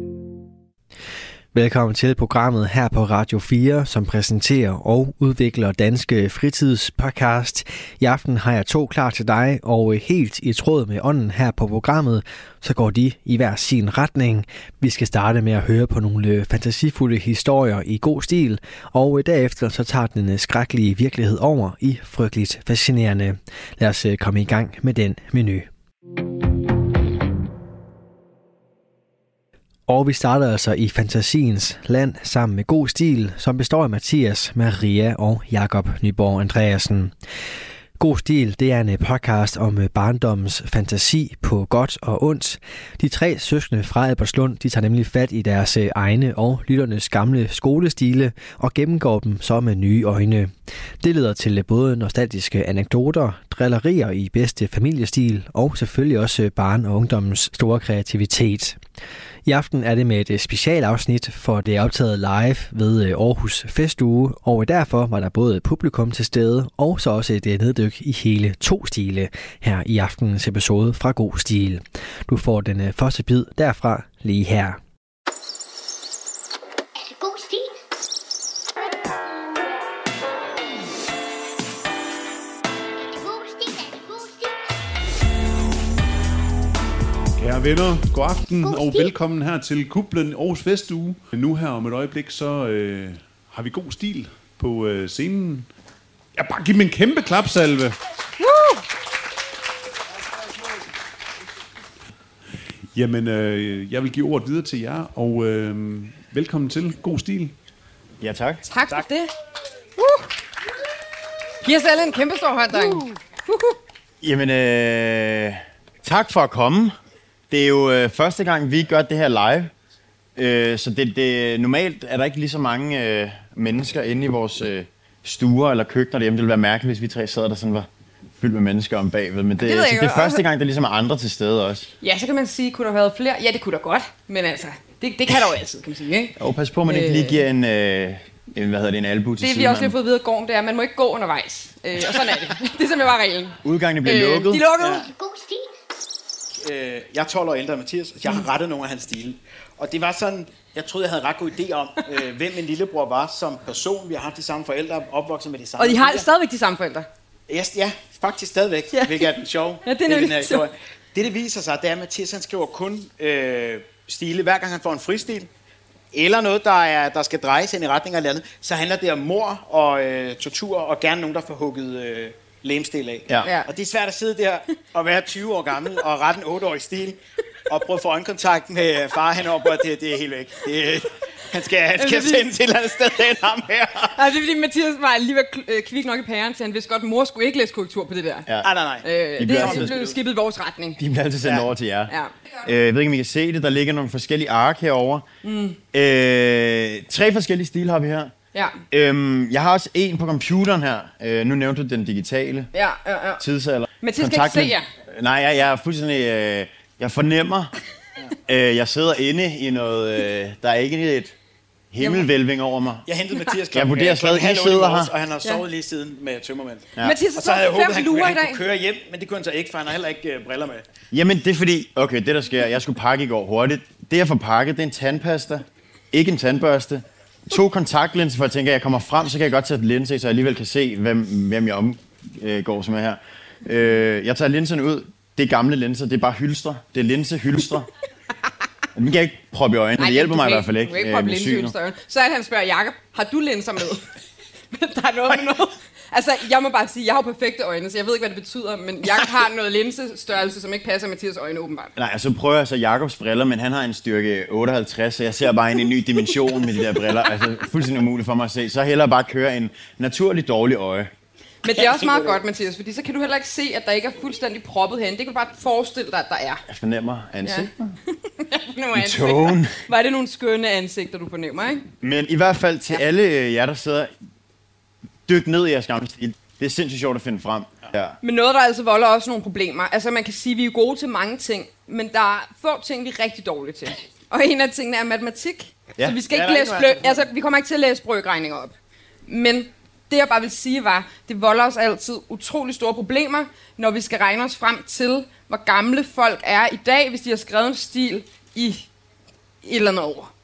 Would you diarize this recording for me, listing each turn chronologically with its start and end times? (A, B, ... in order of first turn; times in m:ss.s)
0:01.5-0:25.7 A
0:29.9-0:37.1 A
0:38.0-0:50.5 A
0:51.0-0:58.8 A
0:59.5-1:14.8 A
1:17.0-1:17.7 B
1:23.2-1:24.6 B
1:27.4-1:35.7 C
1:28.6-1:29.1 B
1:36.4-1:38.0 C
1:38.4-1:38.8 D
1:42.9-1:47.6 C
1:48.2-1:48.6 E
1:48.7-1:49.3 D
1:50.0-1:50.2 D
1:51.6-1:53.8 D
1:54.2-1:57.0 E
1:57.5-1:59.7 E
2:00.4-2:07.9 E
2:08.4-2:11.9 E
2:09.6-2:10.4 D
2:12.0-2:17.4 D
2:16.4-2:20.0 E
2:19.4-2:25.1 D
2:23.6-2:24.7 E
2:24.8-2:25.1 F
2:25.0-2:25.7 B
2:26.6-2:36.3 F
2:35.8-2:37.1 D
2:37.5-2:45.5 F
2:38.9-2:40.7 D
2:46.1-3:04.2 F
2:53.4-2:53.7 D
3:02.0-3:02.5 D
3:04.2-3:08.5 D
3:08.6-3:10.2 F
3:09.0-3:11.0 D
3:09.4-3:09.9 E
3:11.0-3:12.1 E
3:12.1-3:12.4 D
3:12.6-3:15.3 E
3:15.4-3:15.8 D
3:15.9-3:18.3 E
3:18.5-3:18.8 D
3:18.9-3:22.7 E
3:22.7-3:23.4 D
3:23.4-3:27.7 E
3:24.0-3:24.9 D
3:28.5-3:31.3 E
3:31.9-3:33.1 E
3:32.0-3:32.3 D
3:33.1-3:40.8 F
3:33.7-3:35.1 E
3:37.0-3:38.6 D
3:41.1-3:57.9 E
3:59.0-4:01.8 E
4:00.0-4:04.1 D
4:04.7-4:11.9 D
4:12.0-4:21.1 E
4:21.6-4:26.6 D
4:21.7-4:22.4 F
4:26.7-4:28.0 E
4:27.4-4:27.7 D
4:28.3-4:31.9 D
4:29.0-4:29.8 E
4:32.0-4:34.1 E
4:35.3-4:38.2 E
4:38.2-4:48.7 D
4:46.3-4:47.3 F
4:49.3-4:58.9 D
4:59.6-5:00.3 D